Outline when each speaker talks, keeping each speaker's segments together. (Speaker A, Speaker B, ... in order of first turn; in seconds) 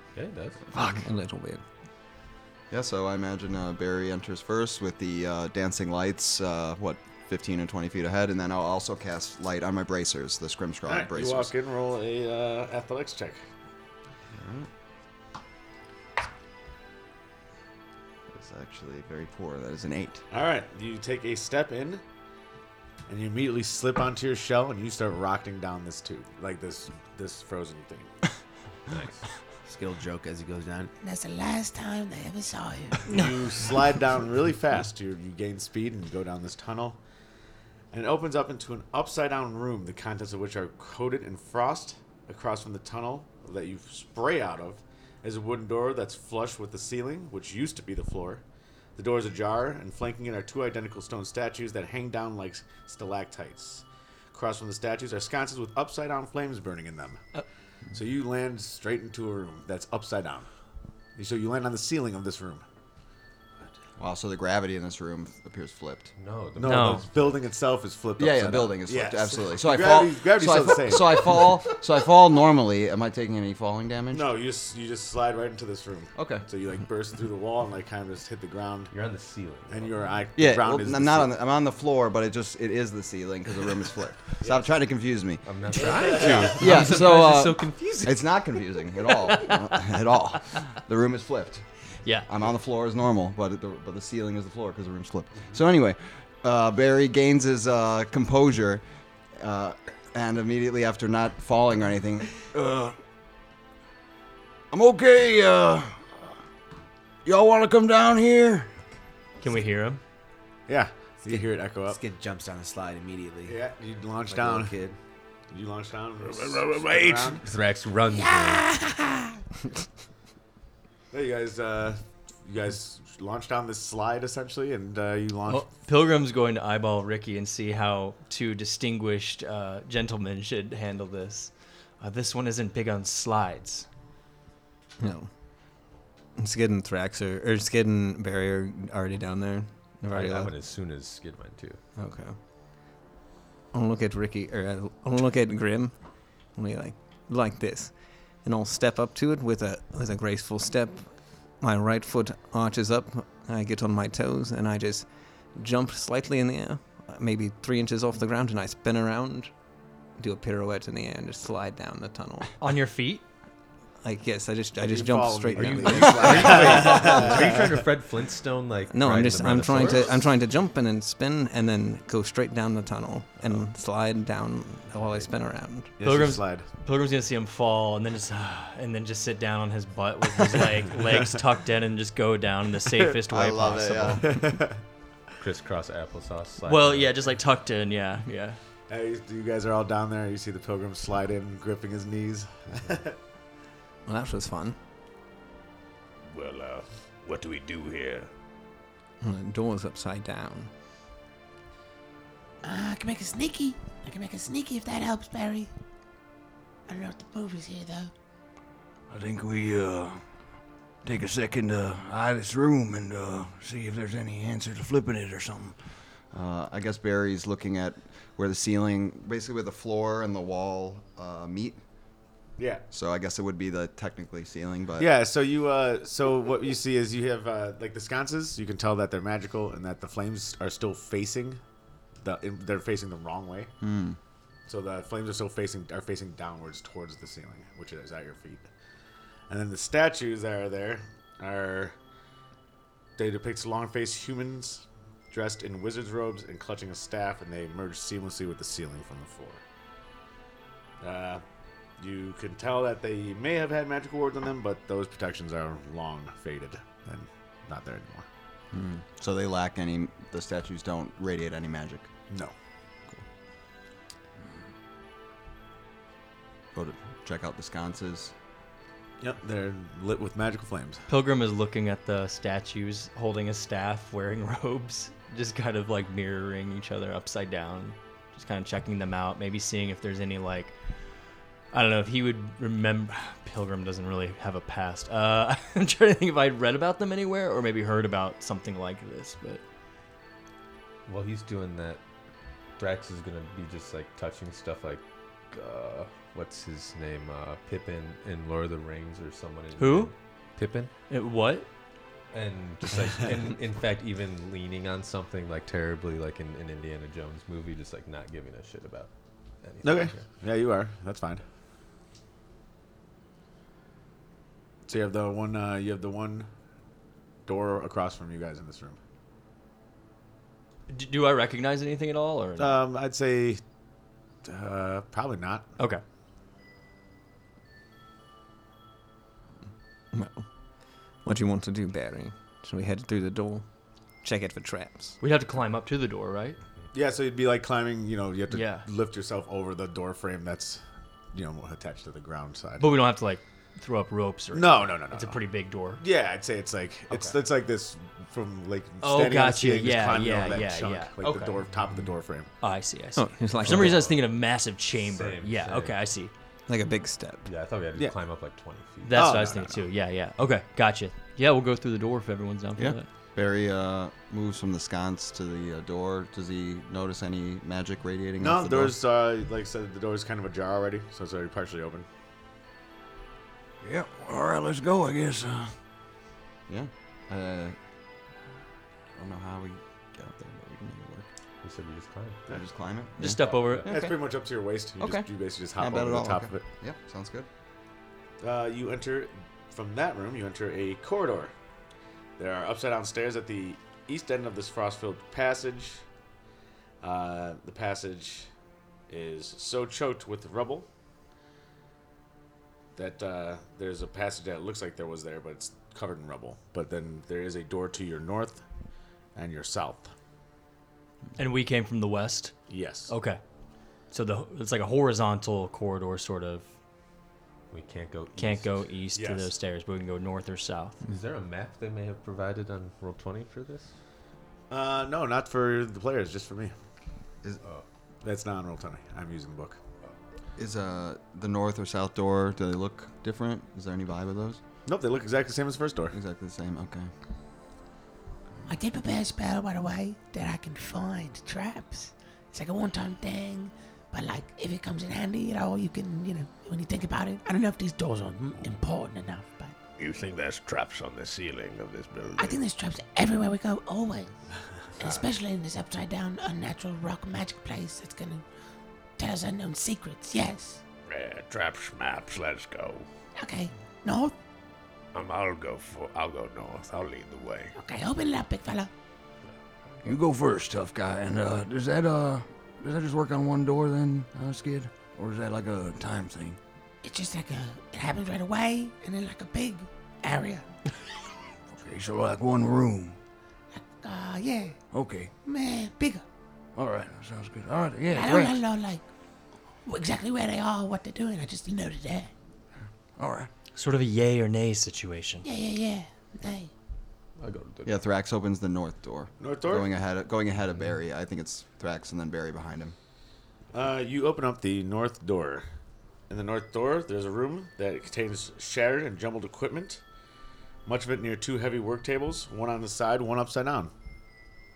Speaker A: 0.1-0.6, 28.9-29.2, 66.2-67.1, 78.9-80.0, 85.4-88.3, 117.4-118.7, 140.1-141.8, 165.6-170.2, 185.4-187.3, 291.1-292.0, 292.8-300.9, 302.3-309.1, 309.6-310.2, 353.6-354.2, 355.0-356.0, 357.4-359.3, 381.6-382.4, 417.7-418.9, 421.1-423.9, 497.4-498.0
Speaker B: 0.7-1.6, 135.0-135.3, 136.4-140.6, 142.0-142.4, 143.7-159.5, 160.2-162.5, 164.0-167.4, 168.9-175.9, 194.1-194.8, 199.2-200.7, 330.1-330.4, 331.2-333.6, 334.2-335.2, 353.1-354.1, 356.7-357.5
Speaker C: 2.7-11.5, 14.3-14.7, 18.3-20.2, 64.0-66.1, 68.2-74.3, 76.2-76.4, 80.3-91.6, 92.3-98.8, 99.3-102.4, 183.3-184.3, 216.3-221.8, 222.9-225.1, 233.8-234.2, 258.7-262.1, 266.7-268.3, 362.8-368.9, 376.7-377.8, 379.1-381.3, 382.5-384.2, 385.0-387.5, 430.6-434.6, 436.1-437.1, 497.8-502.9
Speaker D: 10.8-13.4, 20.3-22.0, 23.1-28.1, 33.1-37.0, 37.9-48.4, 49.0-57.2, 57.9-60.5, 61.1-62.6, 66.5-71.5, 74.1-78.9, 79.7-81.3, 84.4-84.7, 85.7-86.7, 110.7-112.0, 113.4-114.7, 115.5-117.5, 121.1-125.7, 164.8-167.7, 176.0-176.7, 184.2-184.8, 188.9-193.2, 222.6-222.8, 225.0-231.6, 232.2-233.7, 234.7-238.7, 239.5-241.9, 243.2-249.6, 251.0-251.4, 252.0-258.3, 262.3-262.5, 269.2-271.0, 309.8-311.4, 314.9-316.5, 317.4-319.0, 322.6-323.6, 324.4-325.6, 336.9-340.8, 341.3-343.0, 344.5-345.4, 346.0-352.5, 359.1-359.9, 368.4-372.1, 383.5-386.6, 388.4-391.5, 392.4-396.0, 397.0-398.5, 399.1-400.9, 402.9-408.6, 409.3-410.1, 412.7-413.1, 419.1-419.5, 424.7-426.7, 428.2-429.8, 434.9-436.1, 499.4-499.9, 503.7-505.6, 506.3-510.0, 510.8-513.9
Speaker E: 29.6-30.9, 111.2-113.6, 114.3-115.0
Speaker F: 31.0-33.2, 118.1-119.4, 202.6-205.7, 206.9-208.1, 438.7-449.7, 452.4-454.4, 455.0-458.4, 459.2-460.8, 463.3-464.3, 467.8-468.9, 477.0-480.6, 483.7-484.8, 485.4-486.2, 488.1-489.0, 489.8-492.3, 495.4-496.7
Speaker G: 66.6-67.0, 89.1-89.9, 109.4-110.0, 125.5-133.9, 162.6-163.2, 176.0-184.3, 186.7-188.6, 271.1-280.7, 281.7-289.6, 299.8-300.1, 301.1-301.7, 320.9-322.8, 335.2-336.6, 338.5-338.8, 342.8-346.0, 349.0-351.4, 352.6-356.3, 359.1-363.1, 383.2-383.9, 411.4-412.6, 413.1-413.4, 414.1-416.7, 418.4-421.0, 493.7-495.4
Speaker H: 102.5-103.0, 104.7-106.1, 107.2-108.7, 209.1-210.2, 211.0-215.8, 373.8-375.7, 470.0-476.6, 481.8-483.2, 484.9-485.3, 486.7-488.6, 493.2-493.5
Speaker I: 116.2-117.3, 196.3-198.3, 450.0-452.6, 461.1-463.1, 465.1-467.7